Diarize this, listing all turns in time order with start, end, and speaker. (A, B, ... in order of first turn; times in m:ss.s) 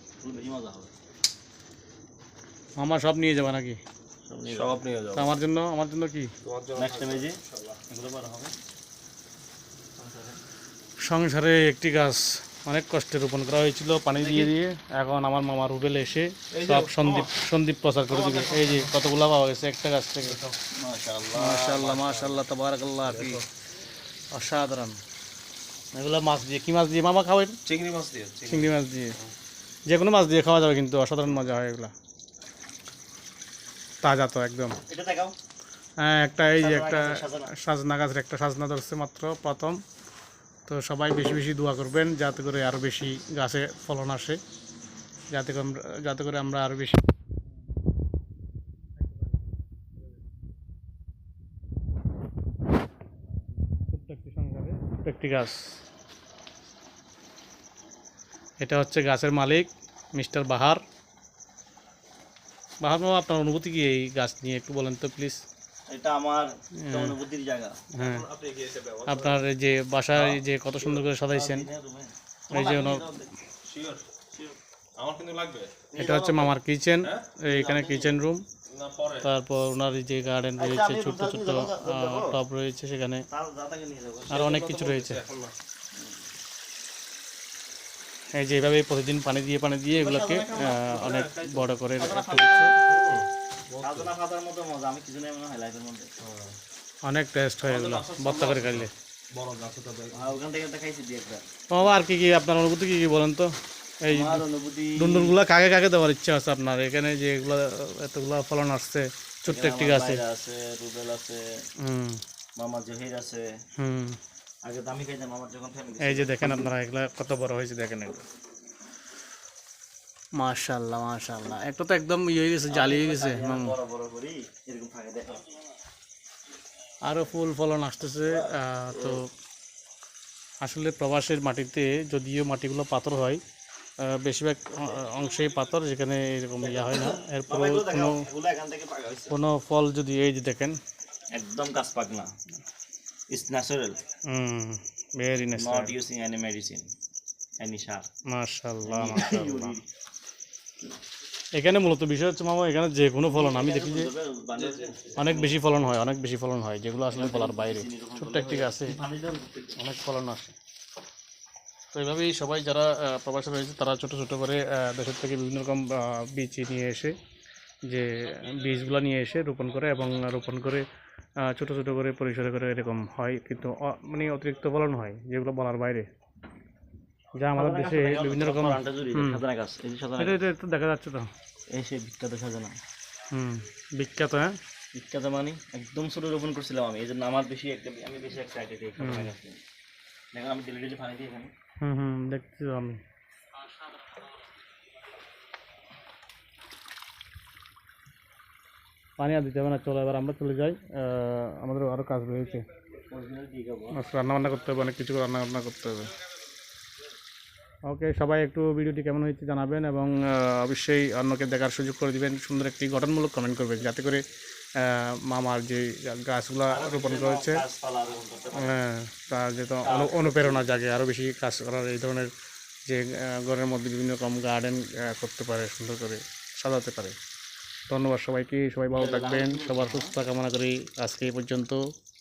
0:00.2-0:00.9 A
0:02.8-0:03.8 B
0:04.2-0:04.8 A
0:04.4-0:05.3 C
0:05.1-0:06.3 B
0:06.4-0:07.8 C
0:06.8-0:08.5 A
0:10.0-0:10.4 A
0:11.0-0:20.5 B
0:14.2-0:14.5 A
0:16.5-0:17.3 C
0:18.1-0:18.8 C
0:20.7-0:22.1 A
0:21.3-0:23.4 B
0:23.1-0:23.4 C
0:24.3-0:25.0 B
0:25.9-0:27.6 B
0:27.6-0:28.7 C
0:28.5-0:29.2 B
0:29.9-0:31.9 B
0:34.0-0:34.8 B
0:34.9-0:35.4 A
0:36.0-0:39.8 B
0:36.6-0:37.5 A
0:40.7-0:44.4 B
0:45.3-0:47.0 B
0:49.0-0:50.2 B
0:53.8-0:55.6 B
0:58.6-1:00.8 B
1:02.8-1:05.4 B
1:05.9-1:07.8 A
1:06.8-1:07.1 B
1:07.9-1:08.3 B
1:08.0-1:09.4 C
1:09.1-1:11.7 B
1:10.1-1:10.4 C
1:11.3-1:13.3 A
1:12.5-1:13.0 B
1:13.6-1:14.0 C
1:14.3-1:14.6 A
1:15.0-1:15.7 C
1:15.9-1:16.5 A
1:15.9-1:18.4 B
1:17.4-1:18.1 A
1:18.7-1:19.3 C
1:19.2-1:23.2 B
1:20.6-1:22.4 A
1:23.3-1:24.4 A
1:24.3-1:25.2 B
1:24.3-1:25.5 C
1:28.4-1:32.7 B
1:29.9-1:31.1 A
1:30.8-1:31.6 C
1:32.0-1:32.8 A
1:32.8-1:34.1 C
1:33.8-1:36.1 A
1:36.2-1:36.6 C
1:37.0-1:38.9 B
1:37.6-1:40.2 C
1:40.1-1:41.4 A
1:41.7-1:44.4 B
1:44.1-1:45.4 A
1:45.0-1:50.2 B
1:49.4-1:51.4 A
1:51.8-1:52.2 B
1:52.6-1:53.4 A
1:53.8-1:54.2 B
1:54.6-1:56.7 A
1:56.0-1:58.2 B
2:00.4-2:03.7 B
2:02.7-2:05.4 A
2:07.0-2:09.2 B
2:10.6-2:13.4 B
2:14.0-2:18.1 B
2:16.6-2:19.4 A
2:19.3-2:20.8 B
2:21.3-2:22.3 A
2:23.3-2:24.0 A
2:24.3-2:25.9 B
2:25.6-2:26.9 A
2:27.6-2:28.1 A
2:28.3-2:29.8 B
2:28.9-2:29.8 A
2:31.5-2:34.1 B
2:33.3-2:35.6 A
2:34.6-2:35.0 C
2:35.2-2:39.0 B
2:37.1-2:39.8 A
2:39.8-2:40.5 B
2:41.9-2:47.1 B
2:47.9-2:50.8 B
2:51.4-2:56.1 B
2:57.4-2:59.4 B
2:57.5-3:00.4 A
3:00.2-3:01.3 B
3:01.7-3:02.7 A
3:03.3-3:04.6 B
3:04.9-3:09.6 A
3:09.0-3:09.3 B
3:10.3-3:11.5 A
3:11.8-3:13.0 B
3:19.2-3:22.6 B
3:23.1-3:24.0 A
3:24.0-3:26.1 B
3:27.8-3:34.2 B
3:34.8-3:37.6 B
3:36.7-3:38.7 A
3:38.5-3:42.3 B
3:39.8-3:40.6 A
3:42.9-3:47.1 B
3:47.9-3:51.8 B
3:49.0-3:50.1 A